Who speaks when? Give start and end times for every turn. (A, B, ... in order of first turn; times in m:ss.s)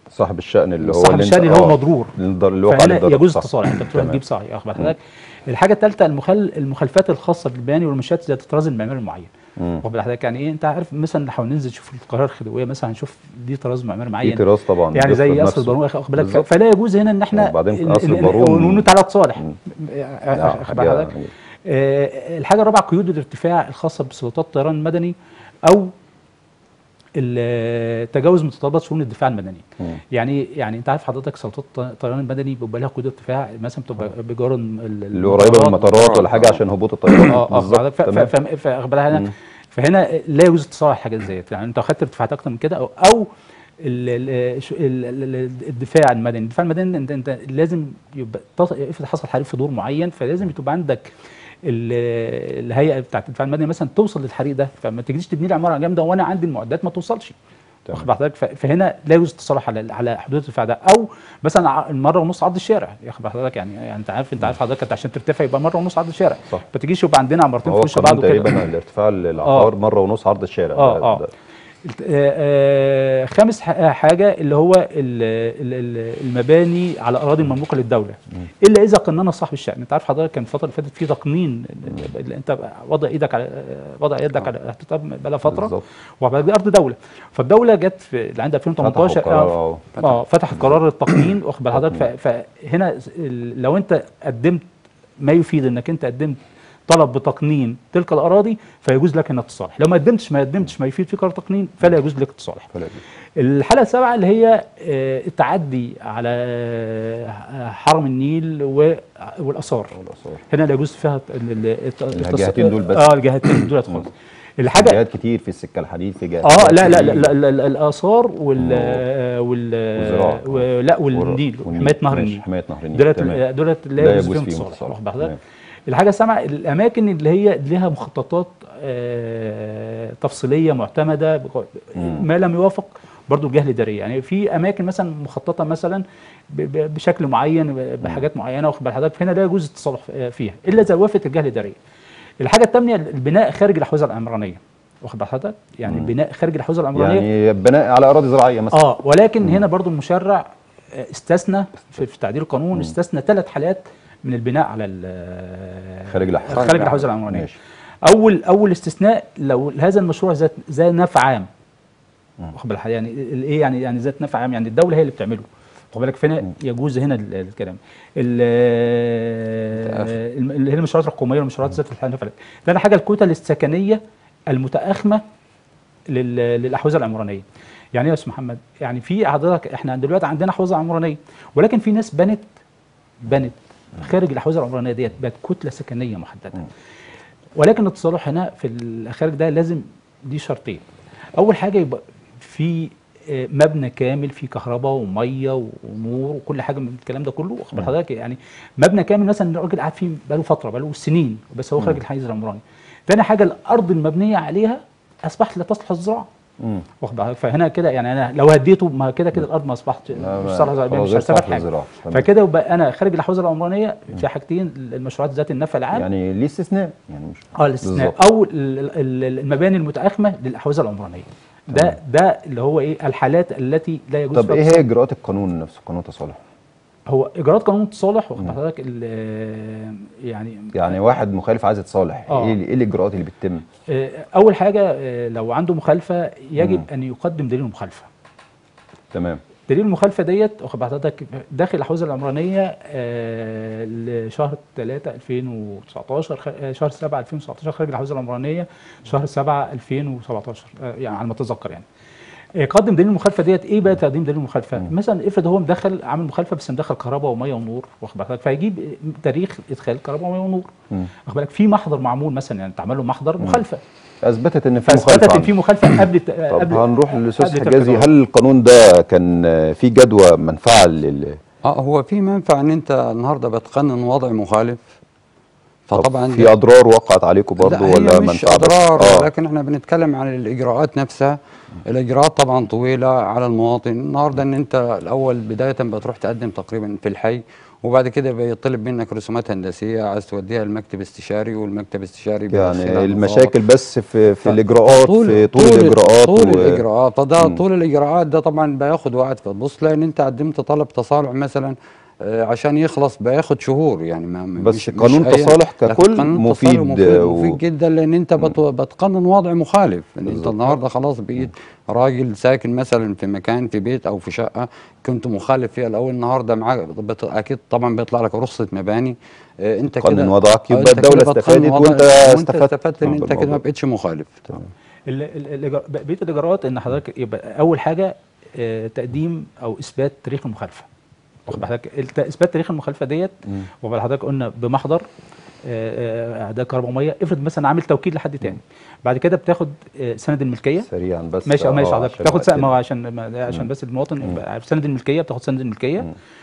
0:00.1-0:04.2 A
0:00.8-0:02.1 B
0:02.7-0:09.3 B
0:09.6-0:09.8 A
0:09.8-0:21.1 B
0:14.2-0:16.5 A
0:17.3-0:19.6 A
0:20.3-0:21.3 A
0:21.6-0:25.2 B
0:25.7-0:25.9 B
0:27.2-0:36.6 B
0:35.1-0:38.3 A
0:37.2-0:43.3 B
0:43.8-0:51.1 B
0:51.6-0:57.4 B
0:57.9-1:08.6 B
1:07.6-1:11.3 A
1:09.4-1:09.7 B
1:10.8-1:11.2 B
1:11.8-1:34.7 B
1:25.5-1:25.8 A
1:28.8-1:29.9 A
1:31.7-1:32.0 A
1:35.2-1:42.7 B
1:42.8-1:43.0 A
1:43.4-1:50.0 B
1:50.0-1:50.4 A
1:50.5-1:55.0 B
1:52.1-1:53.1 A
1:54.6-1:57.3 A
1:56.4-2:05.4 B
1:58.6-1:59.0 A
2:00.0-2:03.4 A
2:04.0-2:05.4 A
2:05.9-2:21.8 B
2:22.4-2:27.2 B
2:25.9-2:26.1 A
2:27.0-2:28.8 A
2:28.7-2:37.5 B
2:36.1-2:37.6 A
2:36.5-2:37.0 C
2:38.0-2:41.5 B
2:42.5-2:55.2 B
2:49.7-2:50.1 C
2:56.1-2:57.4 B
2:57.9-3:02.5 B
3:03.2-3:06.6 B
3:07.6-3:10.8 B
3:11.4-3:26.3 B
3:27.0-3:36.1 B
3:30.2-3:32.3 A
3:35.9-3:38.2 A
3:37.6-3:44.9 B
3:44.3-3:46.4 A
3:47.1-3:50.9 B
3:50.7-3:53.6 A
3:52.3-3:52.6 B
3:53.9-3:58.1 B
3:56.6-3:56.9 A
3:59.1-3:59.4 A
3:59.7-4:11.8 B
4:12.6-4:20.7 B
4:21.3-4:23.8 B
4:24.2-4:25.6 A
4:24.8-4:28.1 B
4:26.5-4:31.4 A
4:31.6-4:34.9 C
4:35.9-4:36.5 C
4:35.9-4:39.3 A
4:37.6-4:53.5 C
4:52.5-4:56.8 A
4:54.4-5:24.4 C
5:04.6-5:07.6 A
5:10.3-5:10.5 A
5:20.0-5:23.6 A
5:25.1-5:30.9 B
5:31.5-5:35.0 B
5:35.7-5:40.9 B
5:40.9-5:42.7 A
5:41.5-5:46.1 B